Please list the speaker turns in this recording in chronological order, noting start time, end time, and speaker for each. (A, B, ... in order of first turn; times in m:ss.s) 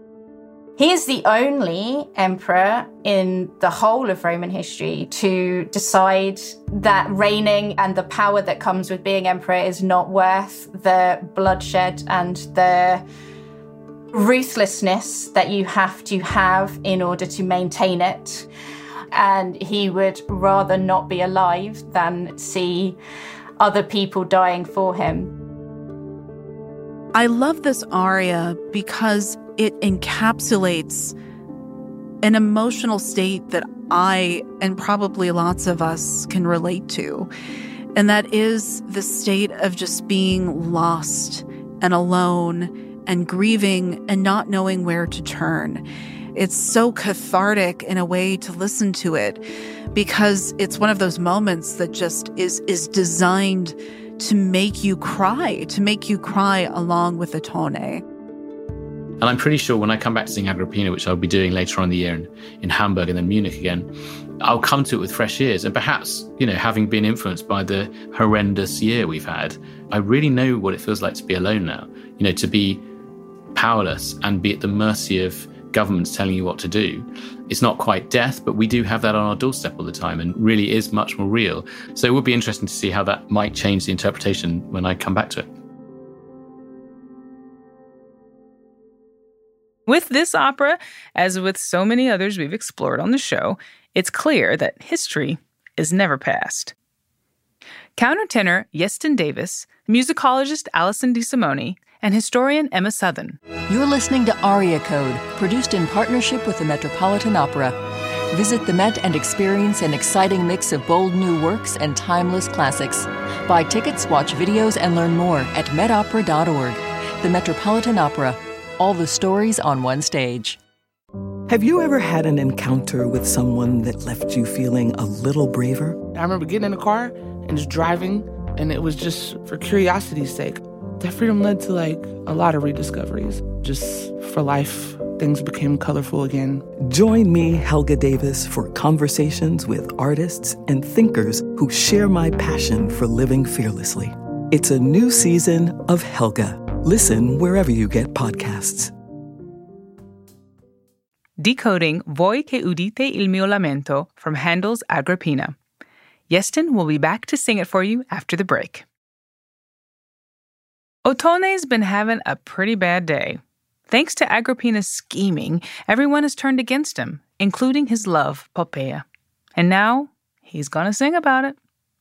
0:00.8-0:13.0 A
0:14.1-0:18.5 A
0:19.1-0:23.0 A
0:23.6-0:25.3 A
0:27.1-0:31.1 B
0:32.2-0:37.3 B
0:37.9-0:45.8 B
0:46.3-0:49.4 B
0:49.9-0:58.0 B
0:59.2-1:03.9 C
1:04.4-1:12.8 C
1:13.5-1:25.5 C
1:29.9-1:36.7 D
1:38.0-1:43.4 D
1:43.7-1:47.7 E
1:48.3-2:00.6 E
2:01.5-2:06.0 F
2:06.1-2:16.6 G
2:16.8-2:28.9 F
2:31.4-2:35.5 D
2:36.3-2:38.8 D
2:41.0-2:49.0 D
2:49.6-2:51.6 D